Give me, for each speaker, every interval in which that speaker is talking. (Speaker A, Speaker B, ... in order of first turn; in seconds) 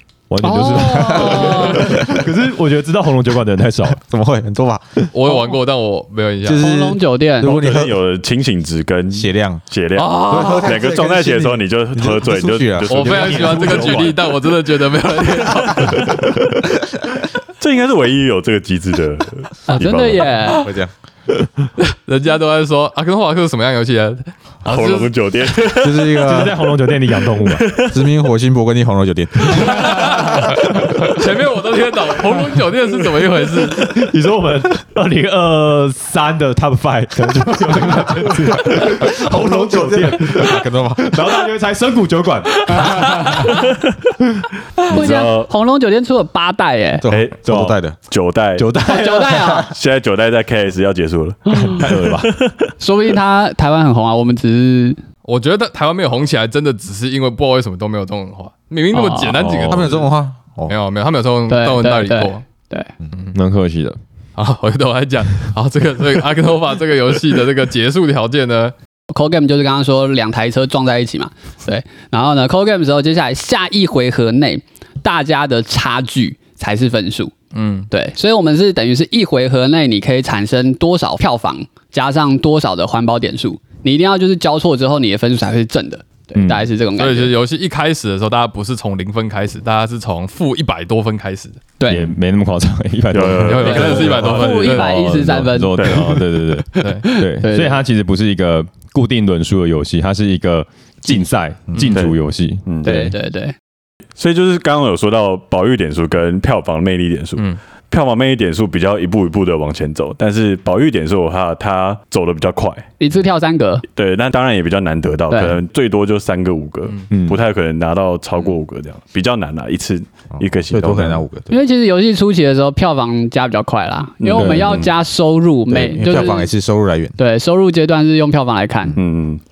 Speaker A: 0.3-4.0, 12.9-14.2, 26.2-27.6, 33.8-43.3, 48.6-49.6, 51.8-52.3, 63.3-64.0, 86.3-86.6, 91.9-103.1, 117.1-117.4, 124.3-124.8
Speaker B: 0.4-1.9, 6.6-7.5, 19.7-20.7, 43.0-43.4, 44.9-47.0, 48.8-49.7, 51.5-51.9, 52.8-55.0, 58.9-59.4, 61.5-62.9, 69.1-77.3, 77.9-87.3, 91.8-92.1, 93.6-97.8, 102.8-103.5, 113.0-113.8, 115.3-115.5, 121.5-126.5, 127.2-128.9
Speaker C: 0.7-2.3, 3.9-4.9, 6.4-7.9, 9.1-9.6, 10.2-13.9, 20.6-20.9, 25.8-26.6, 27.8-30.3, 38.5-41.3, 47.0-48.0, 59.4-60.7, 120.3-121.5, 125.7-127.2
Speaker D: 5.1-6.6, 9.9-10.7, 12.9-16.2, 21.8-26.0, 29.5-34.0, 55.2-60.1, 60.7-62.4, 64.4-68.7, 77.5-77.9, 87.0-91.6, 93.4-95.3, 96.8-97.1
Speaker E: 7.4-13.9, 17.6-20.4, 24.6-26.0, 27.4-28.1, 44.9-45.5, 47.1-48.7, 49.7-52.7, 59.4-59.9, 93.1-94.4, 95.8-96.0, 101.9-102.9, 104.2-112.9, 113.9-121.2, 124.2-124.9, 128.9-129.4